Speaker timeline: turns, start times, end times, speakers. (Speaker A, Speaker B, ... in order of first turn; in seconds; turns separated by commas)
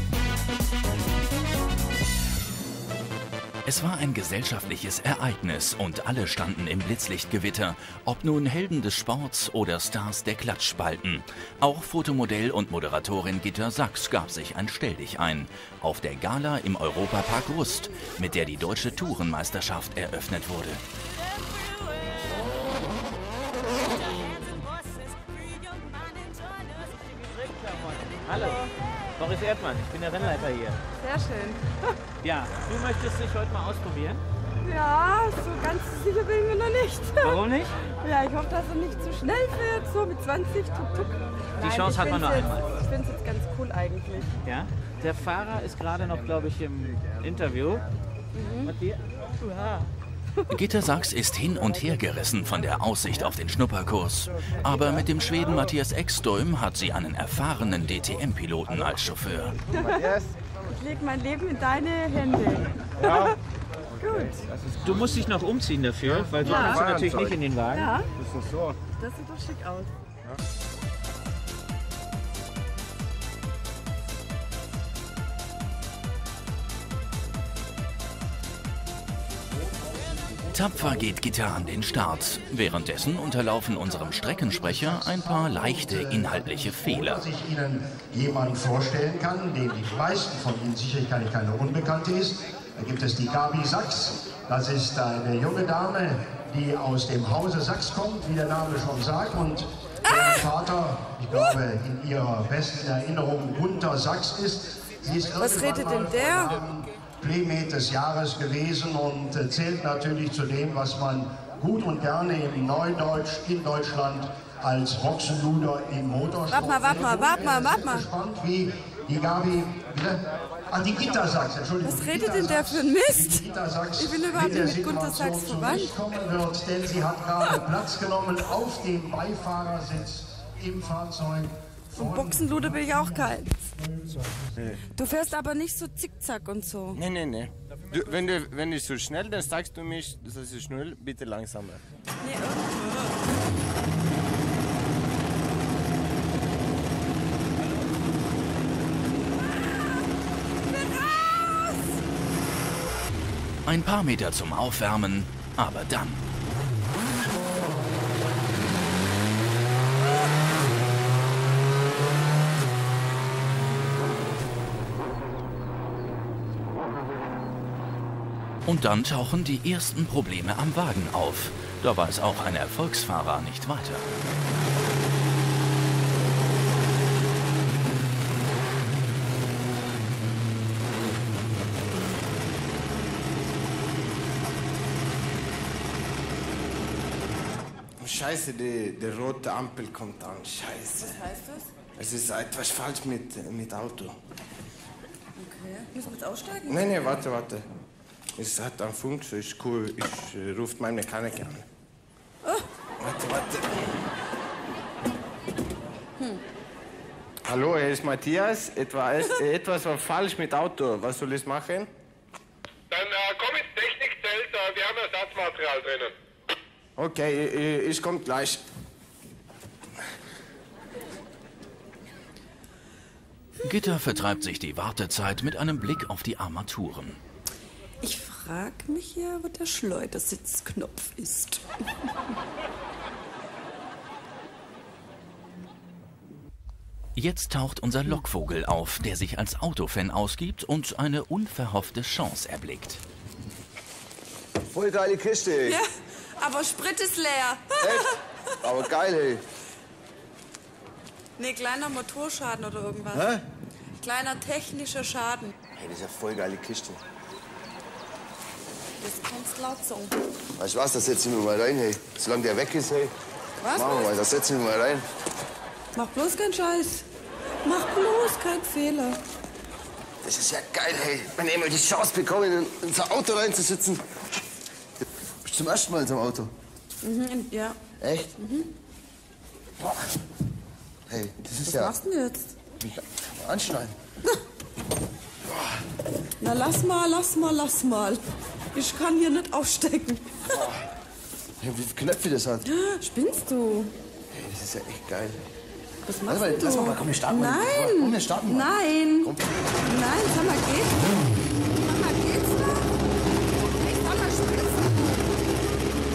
Speaker A: 3.6-20.8, Speaker B: 27.1-28.7, Speaker B: 29.2-30.8, Speaker C: 31.0-31.9, Speaker B: 32.2-34.2, Speaker C: 34.6-44.4, Speaker B: 37.2-37.8, Speaker B: 41.6-42.8, Speaker B: 44.5-47.8, Speaker C: 48.3-48.8, Speaker B: 48.7-49.9, Speaker A: 50.5-59.6, Speaker C: 59.7-60.0, Speaker D: 59.8-60.3, Speaker C: 60.7-63.4, Speaker D: 63.0-63.3, Speaker C: 64.0-64.4, Speaker D: 64.2-65.2, Speaker B: 64.8-67.9, Speaker D: 66.0-67.4, Speaker C: 66.4-66.9, Speaker C: 67.7-68.1, Speaker D: 68.2-68.8, Speaker C: 69.0-69.9, Speaker A: 80.5-87.2, Speaker E: 85.3-133.3, Speaker C: 100.1-100.4, Speaker C: 105.4-106.5, Speaker C: 116.5-118.1, Speaker C: 121.8-123.5, Speaker C: 124.0-125.9, Speaker C: 131.9-133.6, Speaker C: 134.9-137.0, Speaker D: 136.9-141.8, Speaker C: 142.2-143.3, Speaker C: 149.4-150.0, Speaker C: 150.6-151.9, Speaker A: 153.7-156.2, Speaker A: 168.7-174.1, Speaker D: 188.0-191.3, Speaker C: 191.2-191.6, Speaker D: 192.0-194.2, Speaker C: 195.4-196.9, Speaker D: 196.7-197.6, Speaker D: 198.4-201.6, Speaker D: 203.0-203.8, Speaker D: 207.5-211.9, Speaker F: 212.9-216.1, Speaker D: 217.0-218.6, Speaker A: 223.6-227.2, Speaker C: 228.0-231.6, Speaker A: 237.2-243.0, Speaker G: 244.7-245.8, Speaker C: 246.4-248.1, Speaker G: 248.6-249.4, Speaker C: 251.4-253.3, Speaker G: 253.1-253.4, Speaker C: 254.0-255.5, Speaker G: 255.8-257.0, Speaker C: 259.0-260.1, Speaker G: 260.6-263.1, Speaker C: 263.6-264.2, Speaker G: 263.7-265.0, Speaker C: 265.9-267.0, Speaker C: 267.6-269.2, Speaker G: 270.2-274.0, Speaker G: 275.5-276.5, Speaker C: 277.0-277.8, Speaker G: 278.0-278.3, Speaker C: 278.4-278.7, Speaker G: 281.1-281.9, Speaker C: 281.6-282.5, Speaker G: 282.9-283.9, Speaker C: 286.4-288.2, Speaker C: 288.7-290.4, Speaker G: 291.6-292.6, Speaker C: 292.6-293.9, Speaker G: 294.4-295.4, Speaker C: 296.1-299.3, Speaker G: 296.3-299.5, Speaker C: 299.8-301.1, Speaker C: 301.8-302.9, Speaker C: 303.8-305.1